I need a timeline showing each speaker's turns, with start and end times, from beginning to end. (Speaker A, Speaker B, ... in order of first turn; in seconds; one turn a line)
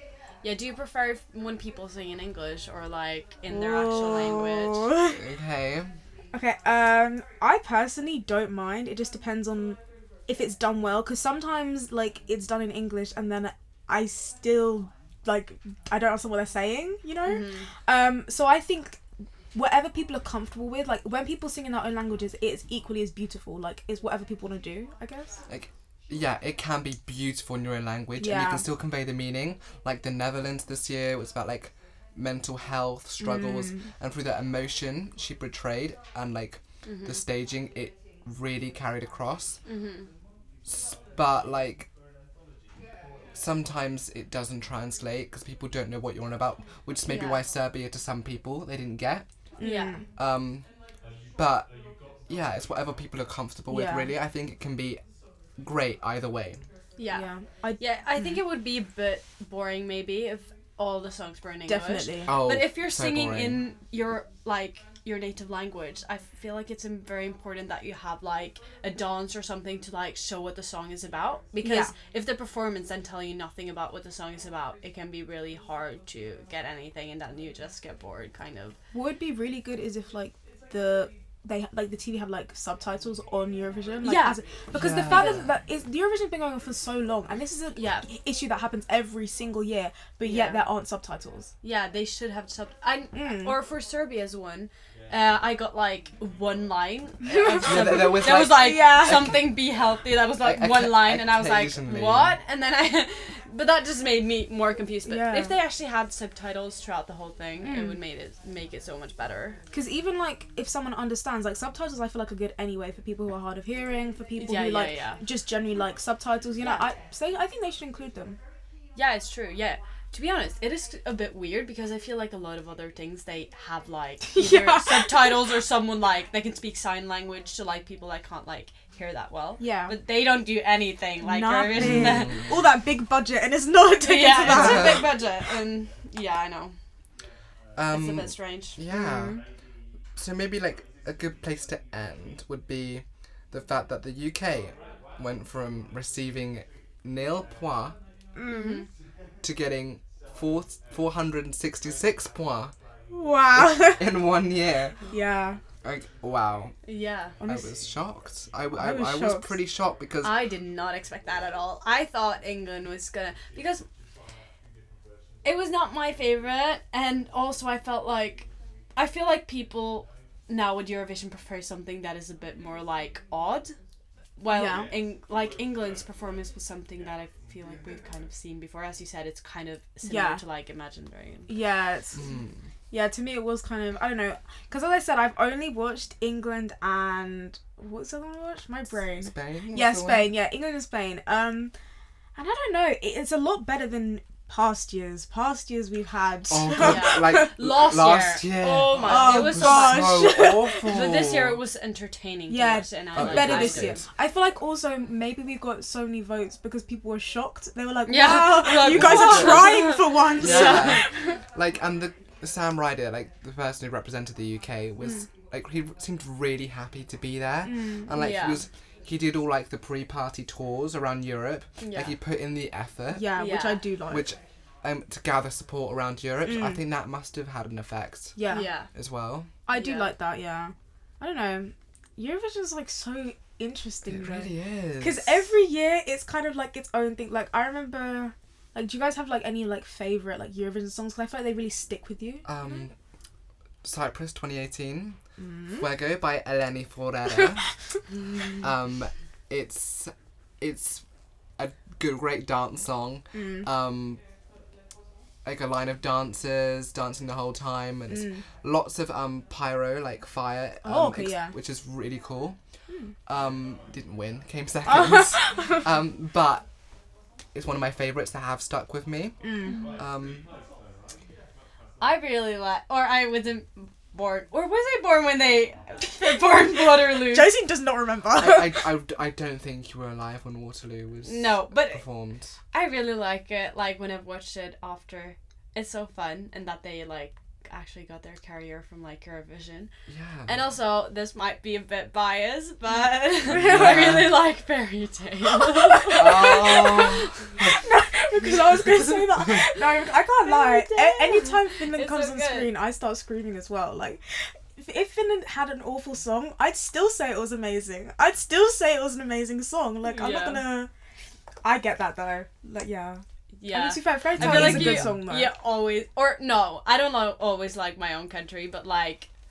Speaker A: 0.4-4.9
Speaker B: 3.5-5.2
Speaker C: 5.1-5.9
Speaker B: 6.3-19.0
Speaker A: 17.2-17.7
Speaker B: 19.5-25.4
Speaker C: 25.5-39.6
Speaker B: 28.2-28.6
Speaker B: 33.2-33.9
Speaker A: 36.8-37.2
Speaker A: 39.6-40.1
Speaker C: 40.6-41.9
Speaker C: 43.3-49.2
Speaker A: 47.1-47.4
Speaker B: 49.6-50.0
Speaker A: 49.6-50.0
Speaker C: 50.1-50.7
Speaker C: 51.4-51.7
Speaker C: 52.3-55.0
Speaker B: 53.7-54.1
Speaker C: 55.6-56.6
Speaker A: 57.0-78.8
Speaker B: 57.1-58.4
Speaker B: 61.7-62.4
Speaker C: 62.2-63.6
Speaker B: 71.6-71.9
Speaker B: 78.9-91.5
Speaker A: 84.0-84.4
Speaker C: 84.7-85.5
Speaker A: 85.0-85.5
Speaker A: 87.7-88.1
Speaker A: 90.2-90.7
Speaker A: 91.6-109.6
Speaker B: 93.1-93.5
Speaker B: 97.3-99.3
Speaker C: 97.6-99.5
Speaker C: 100.4-102.4
Speaker B: 105.0-105.6
Speaker B: 107.6-108.0
Speaker B: 109.7-118.4
Speaker A: 114.4-115.2
Speaker A: 116.6-116.9
Speaker A: 119.0-132.5
Speaker B: 124.3-125.3
Speaker B: 129.6-130.0
Speaker B: 131.2-135.2
Speaker C: 131.7-132.6
Speaker A: 134.0-136.8
Speaker C: 134.4-135.1
Speaker C: 137.8-139.4
Speaker A: 137.9-138.8
Speaker B: 138.9-139.4
Speaker C: 140.2-147.9
Speaker B: 148.3-148.8
Speaker A: 148.5-148.9
Speaker C: 149.4-152.7
Speaker B: 153.1-154.2
Speaker C: 153.5-155.0
Speaker B: 155.1-155.6
Speaker C: 155.8-156.7
Speaker A: 156.8-157.3
Speaker B: 157.4-157.7
Speaker C: 157.4-160.5
Speaker B: 158.7-159.6
Speaker A: 160.2-163.8
Speaker A: 165.4-173.7
Speaker A: 174.4-181.5
Speaker B: 174.5-174.9
Speaker B: 180.0-180.4
Speaker B: 181.5-182.2
Speaker C: 182.1-182.7
Speaker B: 182.9-191.7
Speaker C: 189.2-190.3
Speaker B: 192.3-197.5
Speaker C: 196.5-201.6
Speaker A: 196.7-204.0
Speaker B: 199.0-200.9
Speaker B: 202.5-211.2
Speaker C: 203.1-204.1
Speaker A: 208.1-211.1
Speaker C: 208.8-209.8
Speaker C: 210.4-223.3
Speaker B: 217.6-218.1
Speaker A: 218.1-218.6
Speaker A: 221.8-222.2
Speaker B: 223.1-224.3
Speaker A: 223.3-223.9
Speaker C: 224.1-228.4
Speaker B: 226.4-226.8
Speaker B: 228.3-228.7
Speaker A: 228.5-228.9
Speaker C: 228.9-229.5
Speaker B: 229.7-242.5
Speaker A: 229.7-230.1
Speaker C: 234.1-235.5
Speaker C: 242.4-242.9
Speaker C: 243.8-245.2
Speaker B: 245.4-245.8
Speaker C: 245.8-247.6
Speaker C: 248.6-251.0
Speaker C: 251.6-254.2
Speaker B: 253.3-253.7
Speaker C: 255.4-262.6
Speaker B: 258.1-258.4
Speaker B: 260.8-261.5
Speaker C: 263.2-266.6
Speaker B: 264.8-265.8
Speaker C: 267.5-270.5
Speaker B: 269.4-269.9
Speaker A: 272.0-277.6
Speaker B: 277.1-278.9
Speaker C: 278.3-282.5
Speaker A: 281.2-282.0
Speaker A: 282.7-289.9
Speaker C: 290.1-290.6
Speaker A: 290.5-297.4
Speaker B: 293.5-294.3
Speaker C: 293.5-294.4
Speaker B: 295.6-297.0
Speaker C: 296.1-297.8
Speaker B: 297.6-304.2
Speaker A: 300.4-302.7
Speaker B: 304.7-310.9
Speaker A: 310.0-310.8
Speaker B: 311.6-315.5
Speaker A: 313.6-319.3
Speaker C: 314.4-315.1